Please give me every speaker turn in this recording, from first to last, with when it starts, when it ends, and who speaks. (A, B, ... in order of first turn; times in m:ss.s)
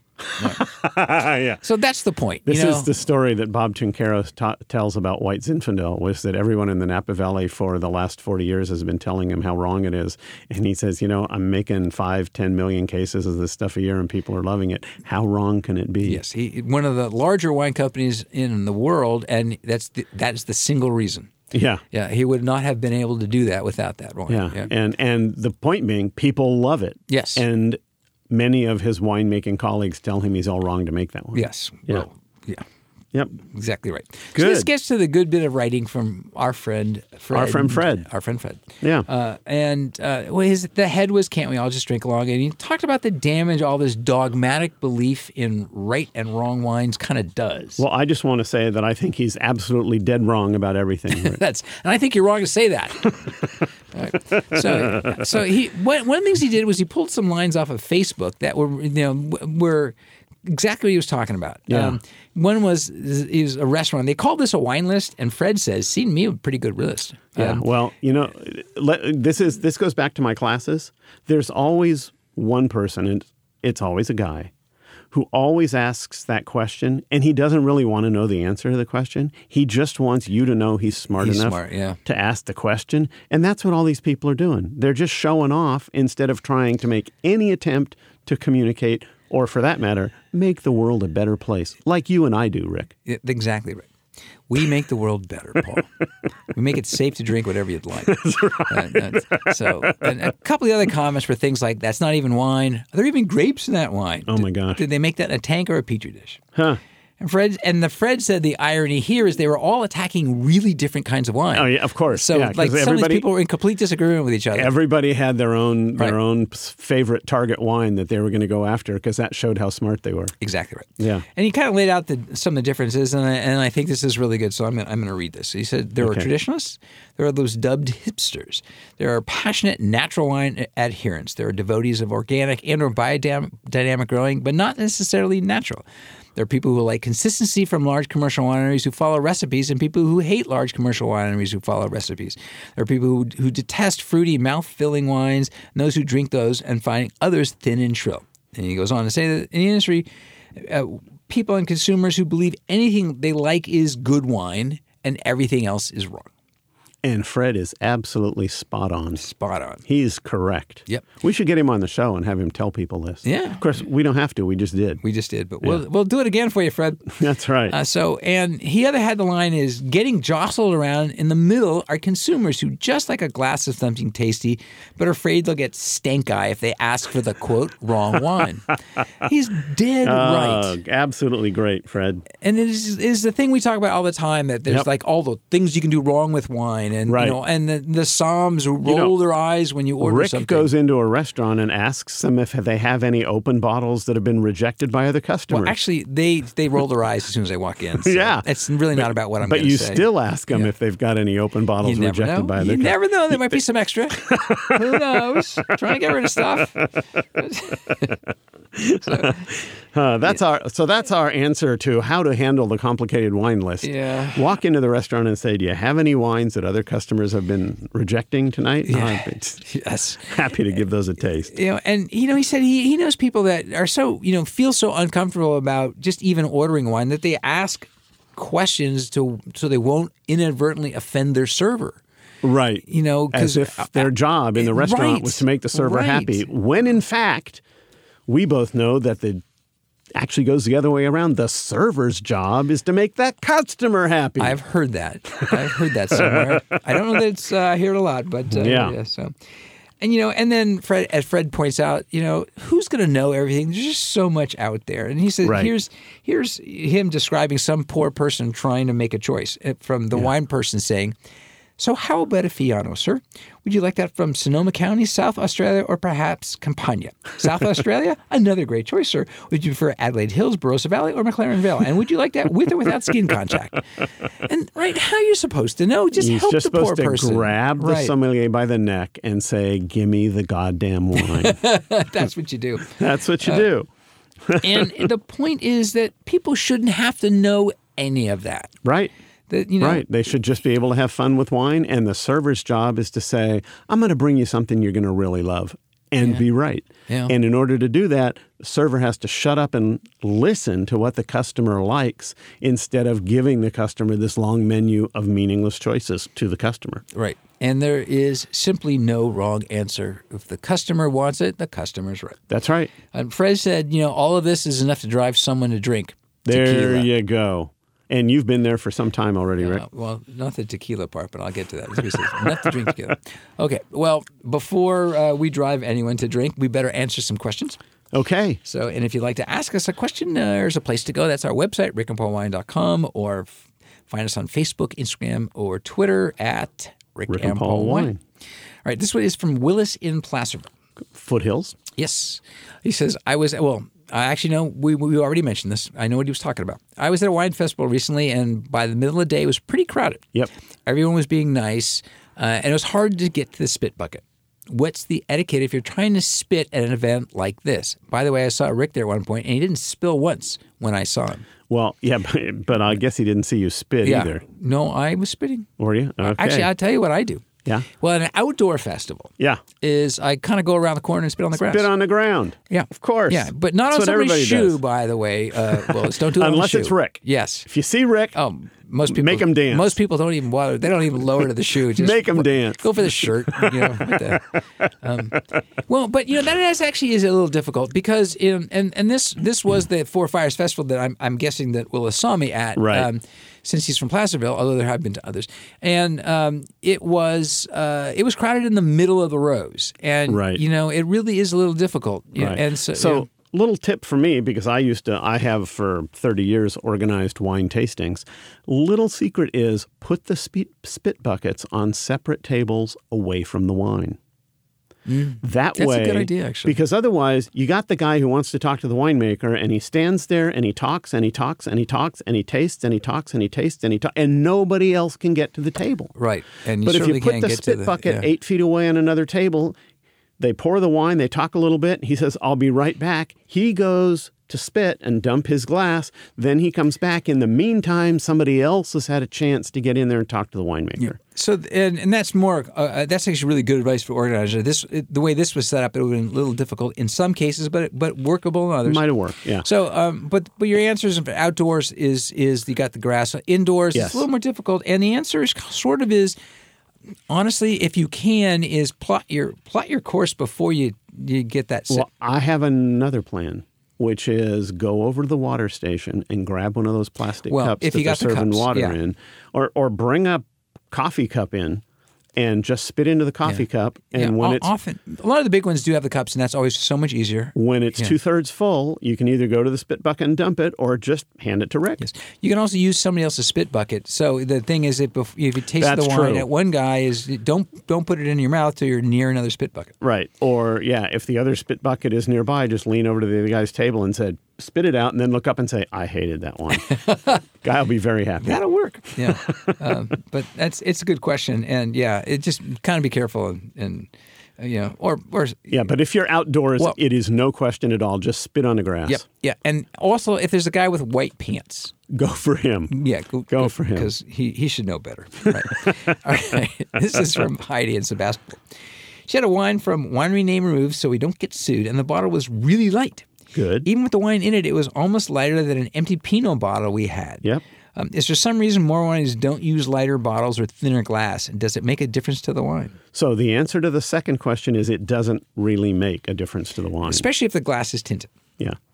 0:00.3-0:01.6 A
0:00.4-0:00.6 B
0:01.6-0:02.9 B
0:02.5-0:16.2 A
0:16.0-0:21.3 B
0:21.5-0:21.8 A
0:21.9-0:24.7 B
0:24.3-0:32.0 A
0:27.1-0:27.4 B
0:31.3-0:32.6 B
0:33.3-0:47.8 B
0:34.4-0:34.7 A
0:37.3-0:38.1 A
0:38.8-0:39.1 A
0:47.8-0:51.4 A
0:51.1-0:53.2 B
0:53.9-1:00.0 B
0:54.6-0:55.2 A
1:00.5-1:07.6 B
1:01.7-1:02.0 A
1:07.4-1:14.5 A
1:15.1-1:32.9 A
1:21.2-1:22.0 B
1:33.1-1:33.9 B
1:34.5-1:35.9 B
1:36.5-1:46.4 B
1:38.0-1:40.0 A
1:44.3-1:44.8 A
1:46.6-1:46.8 A
1:47.2-1:54.7 B
1:51.5-1:53.3 A
1:54.5-2:00.3 A
2:00.4-2:15.8 B
2:01.0-2:01.2 A
2:06.0-2:06.3 A
2:16.4-2:36.3 B
2:37.0-2:39.2 A
2:39.2-2:39.8 B
2:39.8-2:45.0 A
2:43.2-2:43.6 B
2:45.0-3:00.8 B
2:47.1-2:47.8 A
3:00.0-3:02.2 A
3:02.4-3:10.7 B
3:07.1-3:07.4 A
3:08.8-3:09.1 A
3:10.0-3:15.8 A
3:15.5-3:20.7 B
3:18.0-3:23.6 A
3:21.8-3:28.2 B
3:24.2-3:25.2 A
3:28.7-3:39.6 A
3:29.0-3:29.5 B
3:33.8-3:34.5 B
3:38.9-3:40.4 B
3:40.3-3:41.5 A
3:41.5-3:52.0 B
3:52.4-3:57.6 A
3:52.9-3:56.5 B
3:58.3-3:59.4 A
4:00.2-4:04.6 A
4:04.4-4:09.3 B
4:05.4-4:06.6 A
4:08.5-4:08.9 A
4:10.0-4:21.1 B
4:15.4-4:15.7 A
4:21.8-4:38.1 B
4:36.2-4:41.6 A
4:41.2-4:43.6 B
4:42.9-4:43.9 A
4:44.4-4:45.1 A
4:44.6-4:48.8 B
4:48.8-4:49.1 A
4:49.5-4:50.0 B
4:49.8-5:07.0 A
4:57.1-4:57.4 B
5:07.1-5:12.4 B
5:12.5-5:12.9 A
5:13.1-5:17.1 B
5:16.5-5:19.8 A
5:19.6-5:27.8 B
5:28.1-5:28.6 A
5:28.6-5:33.5 B
5:34.1-5:38.1 B
5:37.3-5:38.2 A
5:38.8-5:40.7 B
5:41.1-5:41.8 A
5:42.0-5:50.3 B
5:50.9-6:01.4 B
6:01.7-6:04.4 A
6:04.0-6:05.7 B
6:05.8-6:06.7 A
6:06.2-6:07.5 B
6:08.0-6:11.9 B
6:11.6-6:14.8 A
6:12.7-6:17.7 B
6:15.7-6:18.4 A
6:18.4-6:43.3 B
6:19.1-6:20.0 A
6:21.9-6:24.4 A
6:32.8-6:33.1 A
6:40.3-6:40.6 A
6:42.4-6:54.2 A
6:55.1-6:56.8 B
6:55.4-7:06.1 A
7:06.2-7:08.3 B
7:06.8-7:09.8 A
7:10.4-7:21.2 A
7:21.0-7:29.1 B
7:28.9-7:29.6 A
7:29.6-7:36.4 B
7:33.9-7:34.2 A
7:37.3-7:42.1 B
7:41.9-7:51.8 A
7:47.5-7:49.0 B
7:52.4-7:54.7 A
7:53.4-7:58.2 B
7:57.6-8:02.0 A
8:02.0-8:09.9 B
8:05.8-8:06.5 A
8:10.0-8:18.6 A
8:16.9-8:17.4 B
8:18.4-8:25.7 B
8:19.2-8:19.8 A
8:25.7-8:29.2 A
8:29.1-8:31.9 B
8:32.1-8:33.0 A
8:32.9-8:38.6 B
8:33.5-8:34.1 A
8:35.5-8:36.0 A
8:39.3-8:43.3 B
8:43.5-8:43.9 A
8:43.8-8:53.0 B
8:53.1-8:57.2 A
8:57.0-8:58.3 B